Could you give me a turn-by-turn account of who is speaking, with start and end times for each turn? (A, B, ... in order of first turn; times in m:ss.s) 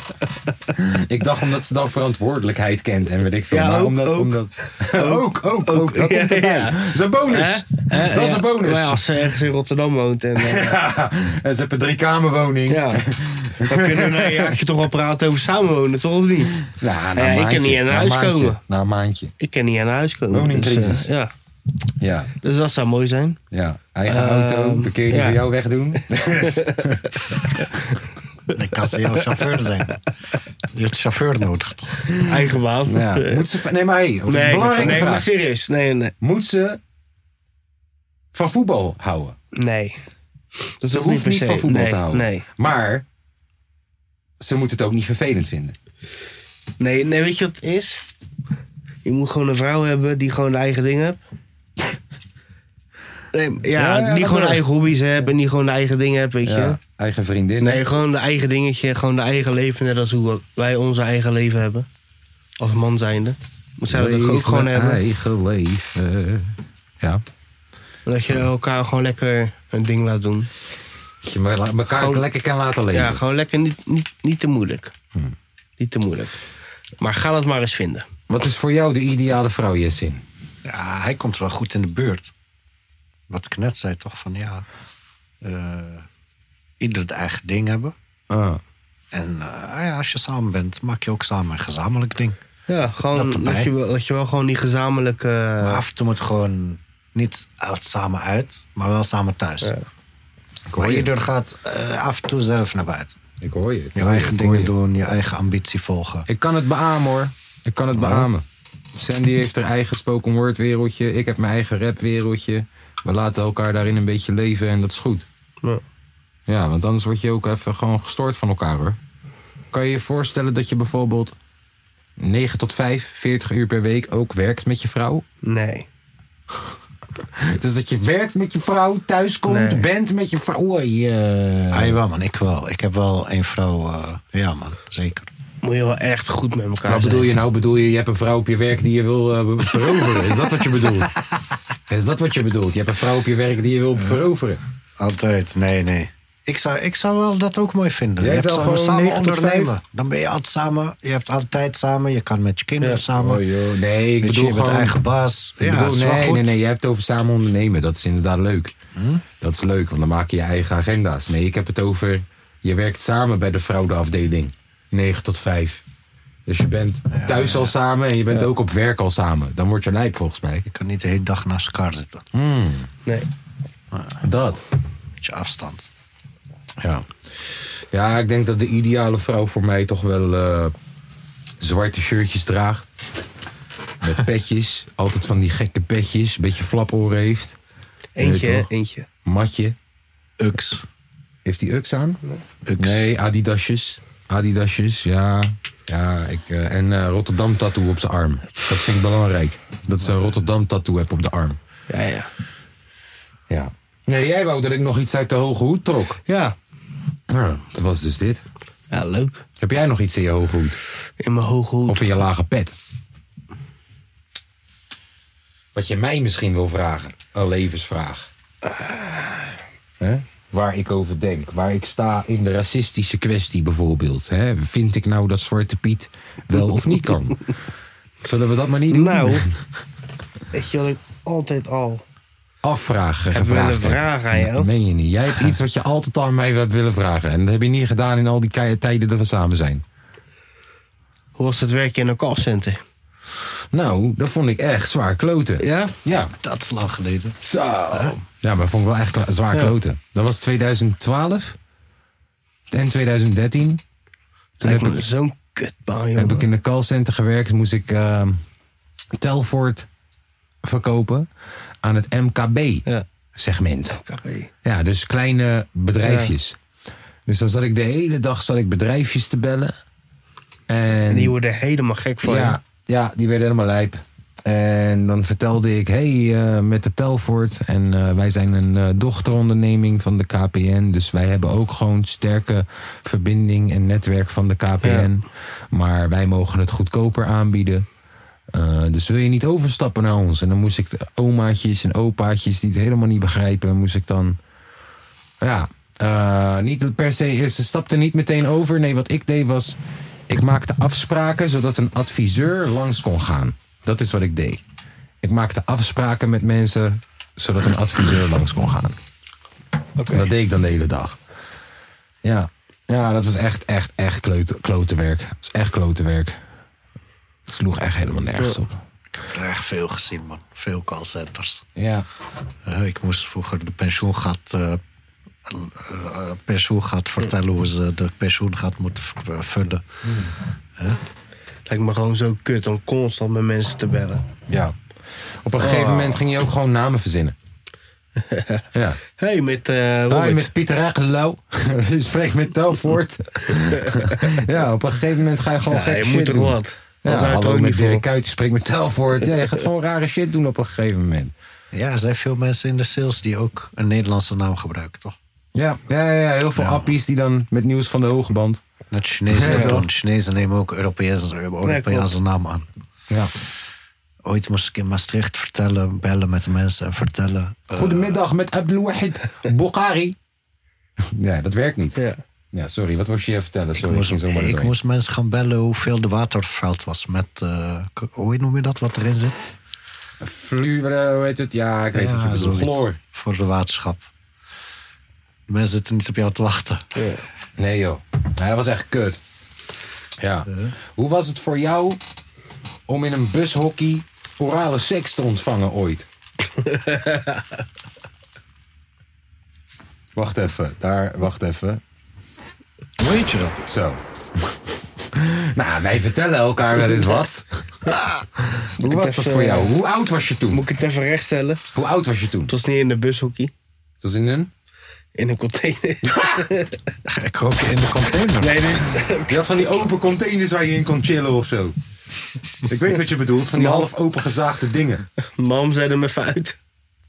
0:00.8-0:09.0 A
0:03.5-0:10.8 B
0:10.4-0:14.6 A
0:12.7-0:13.0 B
0:13.6-0:16.6 B
0:16.6-0:19.3 A
0:17.2-0:18.6 B
0:19.4-0:21.3 B
0:20.3-0:21.1 A
0:22.0-0:22.3 A
0:22.4-0:23.4 B
0:23.5-0:27.1 A
0:24.1-0:25.4 B
0:26.4-0:26.8 B
0:27.6-0:28.0 B
0:28.5-0:30.0 C
0:30.7-0:32.1 C
0:32.2-0:33.4 B
0:32.9-0:35.3 A
0:34.3-0:36.1 B
0:36.2-0:36.8 A
0:38.3-0:39.4 A
0:39.6-0:40.0 B
0:40.8-0:42.4 B
0:40.9-0:43.0 A
0:44.4-0:45.8 A
0:46.8-0:48.0 B
0:49.0-0:51.2 B
0:53.3-0:56.8 B
0:53.7-0:54.6 A
0:56.4-0:57.8 A
0:57.6-1:01.9 B
1:02.6-1:05.0 B
1:03.9-1:07.2 A
1:08.1-1:10.5 B
1:11.2-1:13.2 A
1:11.9-1:12.2 B
1:12.9-1:14.9 B
1:15.8-1:16.4 B
1:17.0-1:18.1 B
1:18.3-1:20.2 A
1:20.6-1:22.3 C
1:23.3-1:24.7 C
1:25.4-1:26.1 C
1:26.8-1:28.0 C
1:28.3-1:28.6 A
1:29.1-1:32.4 C
1:32.7-1:35.8 B
1:33.1-1:33.7 C
1:35.6-1:39.7 C
1:40.7-1:41.1 A
1:40.7-1:43.2 C
1:43.4-1:44.7 A
1:44.0-1:46.3 C
1:46.3-1:55.3 A
1:47.9-1:48.3 C
1:56.5-1:59.0 A
1:59.7-2:01.4 A
2:02.2-2:05.2 A
2:05.4-2:05.9 B
2:07.4-2:12.0 A
2:09.5-2:09.9 B
2:11.7-2:15.3 C
2:15.6-2:17.3 B
2:16.8-2:21.1 A
2:19.8-2:21.1 C
2:21.9-2:24.6 A
2:25.0-2:33.4 C
2:28.2-2:29.8 A
2:33.2-2:35.0 A
2:34.2-2:36.5 C
2:35.6-2:38.7 A
2:39.0-2:39.2 C
2:39.4-2:45.8 A
2:46.5-2:50.7 A
2:47.1-2:47.7 C
2:50.7-2:52.2 C
2:52.3-2:52.9 A
2:53.9-2:54.2 C
2:54.2-2:54.6 A
2:55.2-2:55.9 C
2:56.8-3:00.7 A
3:01.6-3:02.9 A
3:04.0-3:07.6 A
3:08.2-3:09.1 B
3:08.2-3:08.7 A
3:09.2-3:09.8 A
3:10.4-3:10.8 C
3:11.4-3:12.2 A
3:12.7-3:13.0 C
3:12.8-3:21.6 A
3:21.9-3:22.3 B
3:23.5-3:26.2 A
3:26.3-3:26.6 B
3:27.3-3:28.4 A
3:28.9-3:29.4 B
3:29.6-3:30.8 A
3:31.2-3:32.1 B
3:31.9-3:32.8 A
3:35.7-3:38.3 A
3:38.8-3:39.4 B
3:40.0-3:47.5 A
3:48.2-3:49.6 A
3:48.9-3:49.5 B
3:50.5-3:52.0 B
3:52.6-3:59.8 A
3:53.3-3:54.7 B
4:01.4-4:02.8 B
4:03.7-4:06.3 A
4:05.6-4:05.9 B
4:06.4-4:07.4 C
4:07.4-4:11.6 A
4:07.9-4:08.2 C
4:12.7-4:13.8 A
4:14.6-4:15.0 A
4:14.6-4:16.5 B
4:16.2-4:18.4 A
4:19.2-4:19.9 A
4:20.6-4:21.3 A
4:21.8-4:24.0 A
4:23.9-4:24.5 B
4:24.6-4:26.6 A
4:26.0-4:26.3 B
4:27.3-4:29.7 A
4:30.7-4:31.4 A
4:31.1-4:32.6 B
4:32.2-4:47.9 A
4:44.8-4:45.1 B
4:48.5-4:54.4 A
4:55.4-4:59.8 A
5:00.3-5:04.6 A
5:05.2-5:09.0 A
5:10.0-5:10.3 B
5:10.1-5:11.2 A
5:12.2-5:16.4 A
5:17.5-5:18.8 A
5:19.2-5:21.6 C
5:21.8-5:22.1 A
5:22.6-5:24.8 C
5:25.5-5:29.8 C
5:30.0-5:30.3 A
5:31.7-5:34.2 B
5:34.5-5:37.4 A
5:35.6-5:36.2 B
5:38.2-5:38.6 B
5:38.7-5:39.0 A
5:39.2-5:40.5 B
5:40.1-5:51.3 A
5:43.9-5:44.2 B
5:45.7-5:48.0 B
5:51.7-5:55.2 C
5:55.6-5:58.6 A
5:56.6-5:56.9 C
5:58.9-6:02.7 C
5:59.3-5:59.9 A
5:59.4-5:59.8 B
6:01.6-6:02.1 B
6:04.2-6:08.2 C
6:07.7-6:10.2 A
6:11.1-6:12.0 A
6:12.0-6:12.2 B
6:12.5-6:14.8 A
6:13.8-6:19.4 C
6:20.2-6:23.0 A
6:21.9-6:24.1 C
6:25.5-6:26.9 C
6:27.0-6:27.2 B
6:27.6-6:29.2 A
6:30.2-6:32.0 A
6:32.9-6:36.1 A
6:36.6-6:37.6 B
6:40.1-6:41.8 A
6:43.0-6:43.6 C
6:43.7-6:47.7 A
6:48.4-6:50.6 A
6:48.8-6:49.7 B
6:50.5-6:51.6 B
6:51.7-6:52.5 A
6:52.5-6:53.5 B
6:54.0-6:54.5 A
6:55.2-6:57.0 B
6:56.0-6:56.5 A
6:57.1-6:58.6 C
6:58.4-6:59.6 B
6:59.3-7:01.8 A
7:02.6-7:05.1 A
7:03.6-7:03.9 B
7:05.2-7:06.6 B